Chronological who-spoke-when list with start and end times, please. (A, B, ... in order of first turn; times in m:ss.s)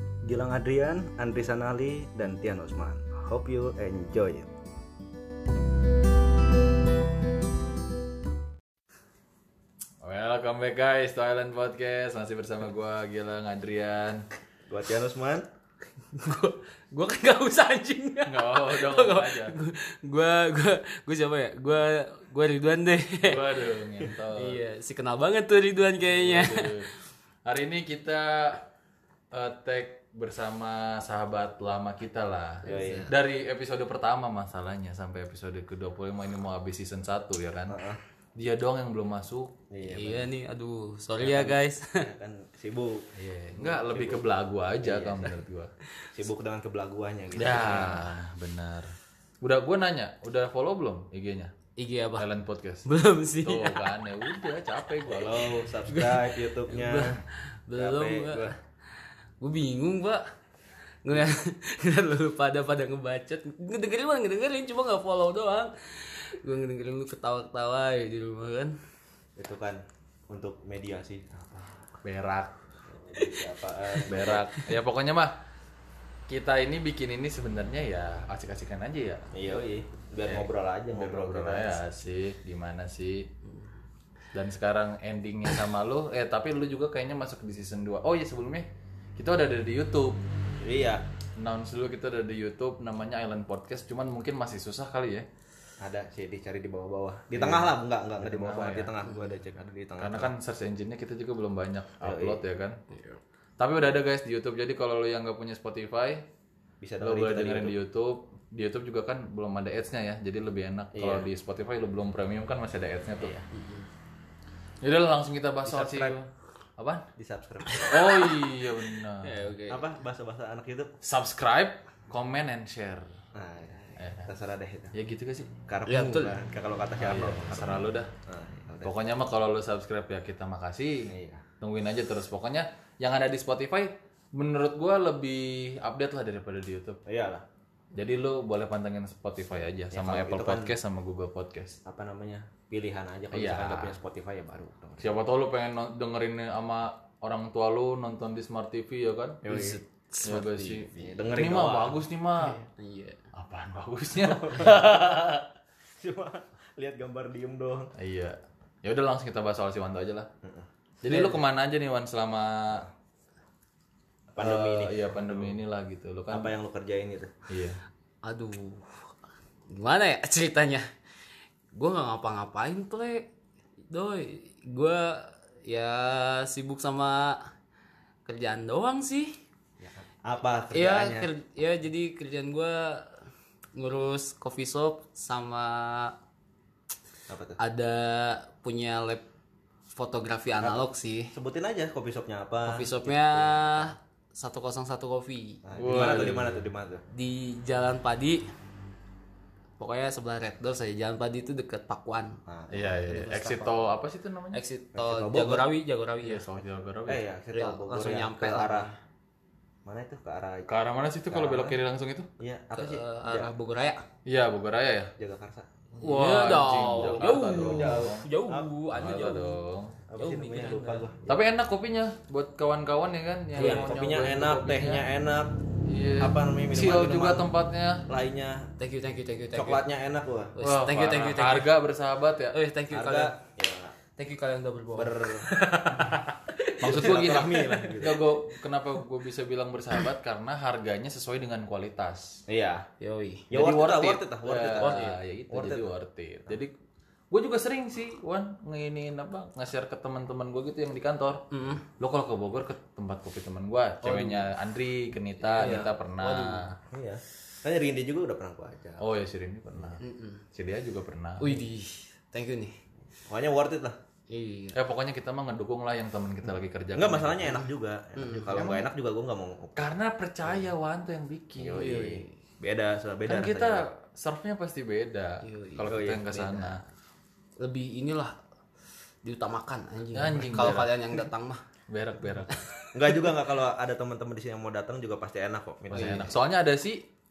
0:00.2-0:04.5 A
0:10.0-0:14.2 B
0:14.7-0:15.5 A
0:16.1-0:23.4 C
0:18.3-0:19.6 B
0:23.2-0:24.6 B
0:24.4-0:26.9 C
0:26.0-0:26.9 B
0:27.5-0:28.6 B
0:29.3-0:37.8 B
0:32.6-0:33.1 C
0:32.6-0:33.1 A
0:37.7-0:38.0 A
0:38.4-0:39.5 B
0:39.7-0:40.3 A
0:39.8-0:42.1 C
0:41.2-0:44.3 A
0:43.2-0:45.7 B
0:44.8-0:45.3 A
0:46.1-0:48.0 A
0:47.4-0:51.5 B
0:51.8-0:52.3 C
0:52.2-0:52.9 B
0:52.9-0:53.9 C
0:53.4-0:55.5 B
0:55.1-0:57.2 A
0:55.9-0:58.6 C
0:57.8-0:58.6 A
0:59.4-1:00.2 C
1:01.0-1:08.8 C
1:09.4-1:11.9 A
1:12.0-1:12.5 B
1:12.9-1:14.5 A
1:14.0-1:15.4 B
1:16.3-1:19.3 B
1:19.3-1:21.8 A
1:20.2-1:23.3 B
1:24.3-1:28.7 B
1:29.2-1:30.2 B
1:30.6-1:31.0 A
1:31.4-1:35.3 B
1:35.8-1:40.3 A
1:37.3-1:38.9 B
1:39.0-1:39.4 C
1:40.0-1:42.8 B
1:42.0-1:42.4 A
1:42.9-1:43.2 C
1:43.6-1:46.2 B
1:46.8-1:47.8 A
1:47.0-1:53.3 B
1:50.9-1:51.3 A
1:53.2-1:53.5 A
1:53.5-1:53.9 C
1:54.8-1:57.1 B
1:55.6-1:56.2 A
1:57.2-1:58.1 A
1:57.7-1:58.0 C
1:57.9-1:59.3 B
1:59.2-2:00.0 C
1:59.7-2:00.9 A
2:01.0-2:03.1 B
2:03.3-2:04.9 A
2:04.0-2:04.3 B
2:04.9-2:05.5 B
2:05.7-2:08.9 A
2:05.9-2:06.4 C
2:07.0-2:08.1 B
2:08.8-2:17.0 B
2:11.0-2:11.4 A
2:17.1-2:17.4 A
2:18.0-2:21.8 B
2:19.9-2:20.8 A
2:21.9-2:25.2 A
2:23.3-2:24.0 B
2:25.0-2:29.4 B
2:29.4-2:29.8 A
2:29.4-2:31.2 C
2:30.2-2:32.6 B
2:31.0-2:32.6 A
2:32.6-2:33.2 C
2:33.3-2:35.4 B
2:34.2-2:35.3 A
2:36.0-2:37.9 A
2:38.0-2:40.3 B
2:41.0-2:42.9 B
2:41.1-2:41.4 C
2:44.3-2:45.6 A
2:44.4-2:46.6 B
2:46.3-2:47.4 A
2:47.5-2:47.8 B
2:48.2-2:49.1 C
2:49.7-2:50.9 C
2:51.7-2:53.3 C
2:53.9-2:57.4 C
2:58.3-2:59.4 C
2:59.8-3:01.3 A
3:00.7-3:03.2 C
3:03.8-3:06.2 C
3:07.3-3:07.6 A
3:07.6-3:09.3 C
3:09.9-3:11.3 C
3:11.3-3:13.9 A
3:12.7-3:15.6 C
3:15.6-3:17.0 A
3:15.8-3:16.7 B
3:17.1-3:18.5 C
3:19.8-3:22.4 C
3:22.5-3:22.8 A
3:22.7-3:24.6 B
3:23.0-3:23.8 C
3:24.5-3:26.4 C
3:24.9-3:25.7 A
3:26.2-3:27.2 B
3:27.1-3:28.9 A
3:27.5-3:29.0 C
3:29.9-3:30.7 A
3:30.7-3:32.3 B
3:31.3-3:31.8 A
3:32.4-3:33.5 A
3:32.8-3:34.0 C
3:34.3-3:35.1 B
3:35.2-3:38.7 A
3:36.0-3:38.2 B
3:36.0-3:39.6 C
3:38.9-3:40.0 B
3:40.1-3:41.3 A
3:40.2-3:41.1 C
3:41.3-3:45.0 B
3:43.6-3:45.6 A
3:43.6-3:43.9 C
3:45.9-3:48.0 B
3:46.2-3:47.5 A
3:48.1-3:48.7 A
3:48.8-3:49.8 C
3:49.5-3:50.5 A
3:50.6-3:51.7 C
3:50.6-3:52.6 B
3:52.5-3:53.4 C
3:52.9-3:54.0 A
3:54.2-3:55.2 C
3:55.0-3:55.5 A
3:55.6-3:56.1 B
3:56.0-3:57.2 C
3:56.8-4:02.4 B
3:56.8-3:58.2 A
4:02.5-4:02.9 A
4:03.0-4:03.5 C
4:03.5-4:05.9 A
4:03.5-4:06.7 B
4:04.8-4:05.2 C
4:07.3-4:16.8 B
4:11.5-4:11.8 C
4:14.0-4:14.5 C
4:15.5-4:16.7 C
4:15.5-4:15.9 A
4:16.9-4:19.0 A
4:19.0-4:20.0 B
4:20.0-4:20.4 C
4:20.5-4:21.7 B
4:21.4-4:22.8 C
4:23.3-4:24.0 A
4:24.3-4:24.8 C
4:24.8-4:27.7 B
4:26.5-4:29.9 A
4:28.2-4:28.6 C
4:28.5-4:28.9 B
4:29.8-4:32.1 B
4:31.6-4:33.9 A
4:31.8-4:32.3 C
4:33.3-4:36.8 B
4:35.4-4:36.8 C
4:35.9-4:36.2 A
4:37.6-4:38.4 C
4:39.2-4:41.6 C
4:40.1-4:41.2 B
4:41.9-4:42.6 B
4:42.5-4:43.3 C
4:42.9-4:46.4 A
4:45.9-4:47.1 B
4:46.0-4:46.3 C